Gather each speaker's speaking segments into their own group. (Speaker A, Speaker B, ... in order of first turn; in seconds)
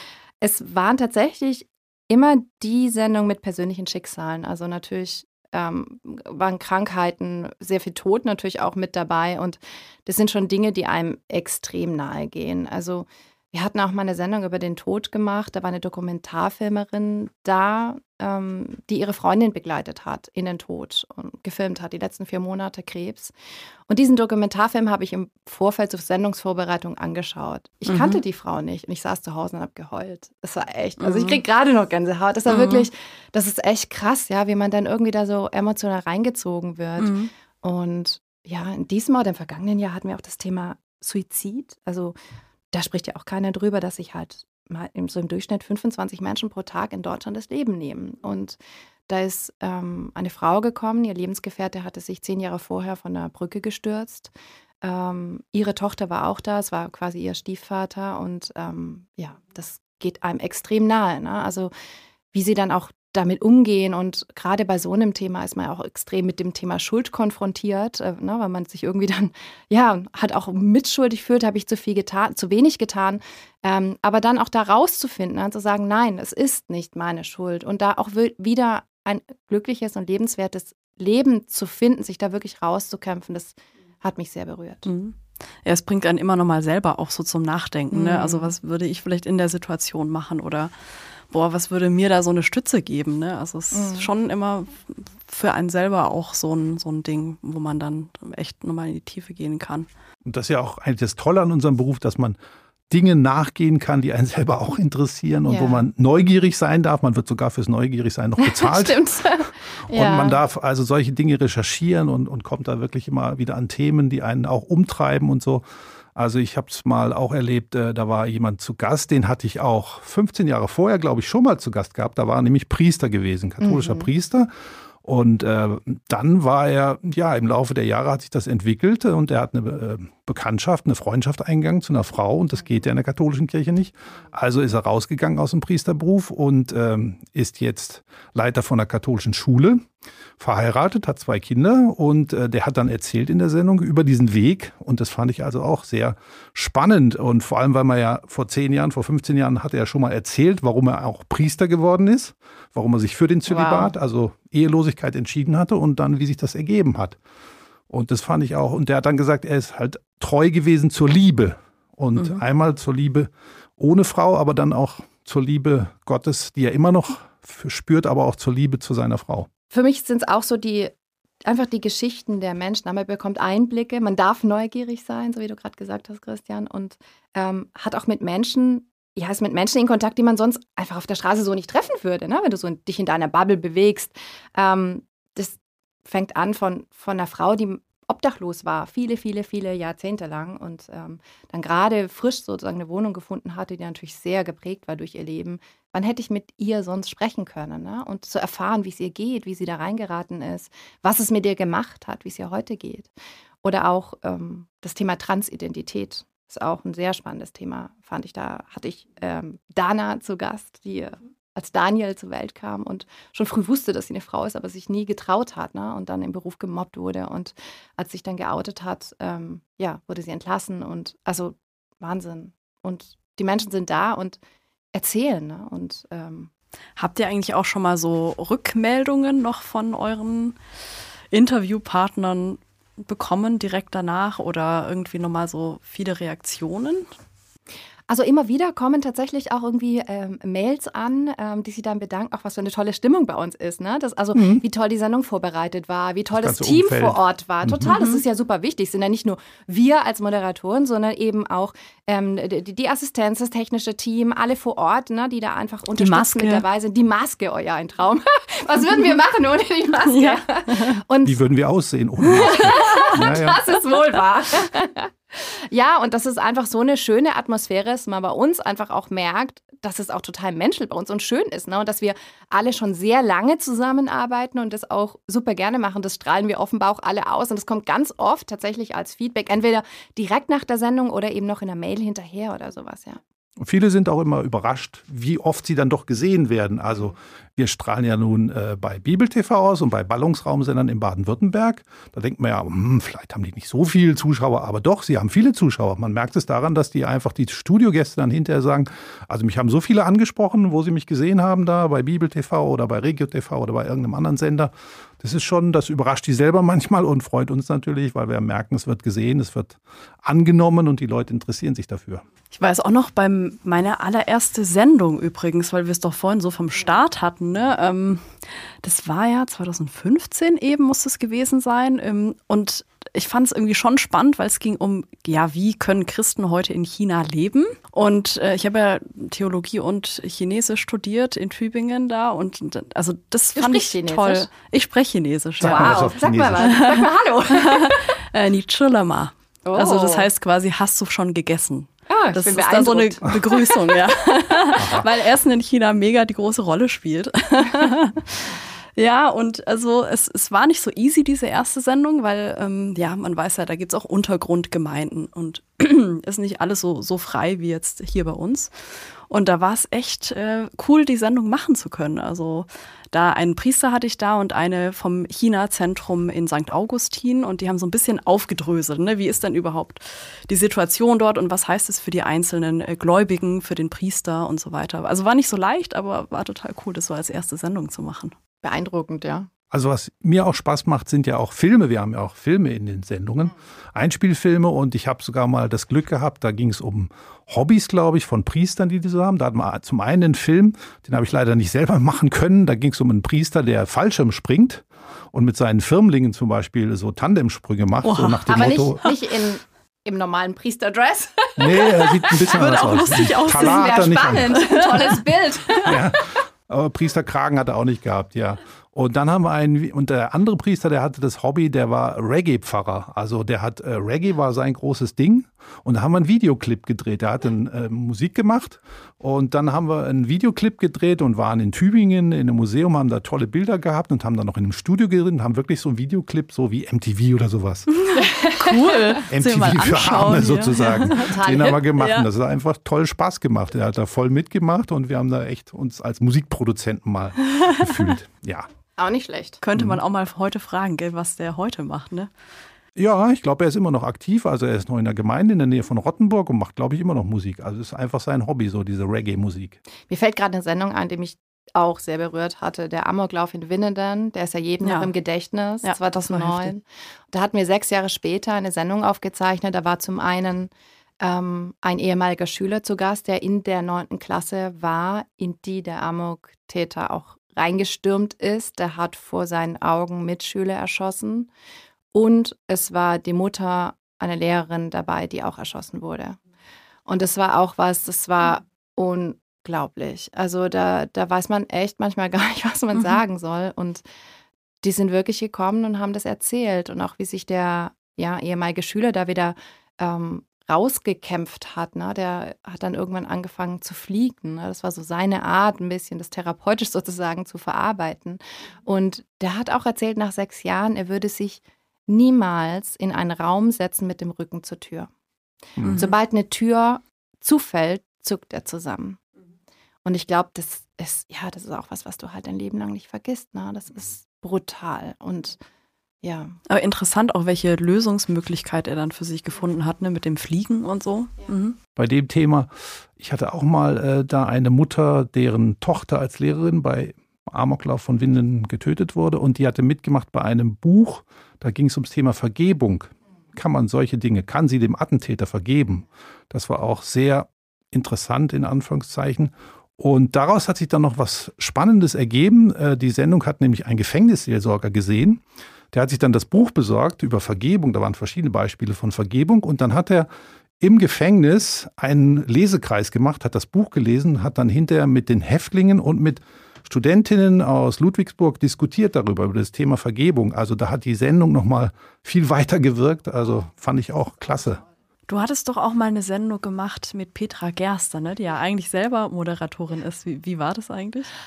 Speaker A: 0.4-23.3, 23.9-42.1, 42.7-54.3, 54.8-61.7, 62.3-84.9, 87.9-88.5, 93.7-94.1, 105.5-105.8, 108.4-110.4, 123.6-124.1, 153.5-153.9, 169.7-170.9, 171.4-203.1, 203.6-224.4, 224.9-226.5, 238.1-261.4, 262.3-283.2, 333.6-334.5, 335.6-338.1, 339.6-340.3, 342.1-344.1, 378.6-379.5, 398.5-402.5, 403.5-406.2, 428.2-429.1, 431.2-431.9, 439.0-439.6, 450.1-460.7, 461.2-471.5, 472.1-476.4, 477.1-484.0, 484.8-505.1, 506.0-509.2, 510.1-515.6, 516.2-516.6
Speaker B: 27.9-28.2, 31.0-31.4, 32.5-32.9, 37.0-37.3, 84.8-90.7, 91.3-99.9, 227.0-230.6, 231.3-237.1, 256.0-256.6, 260.1-261.0, 262.4-263.2, 312.5-318.3, 318.8-378.3, 398.0-399.2, 402.4-405.2, 428.1-431.4, 432.0-432.3, 437.6-437.9, 439.6-442.3, 454.8-455.1, 455.8-456.7, 505.9-506.1, 516.7-521.8, 565.3-571.3
Speaker C: 100.2-102.4, 102.9-115.6, 116.2-124.5, 125.0-139.9, 140.4-157.2, 157.9-169.5, 244.3-244.6, 246.3-248.0, 261.2-263.7, 283.6-312.2, 335.6-336.7, 344.8-345.1, 379.7-399.0, 401.6-404.6, 405.8-427.9, 429.3-438.7, 439.8-440.0, 443.0-449.8, 522.0-550.3, 550.8-564.8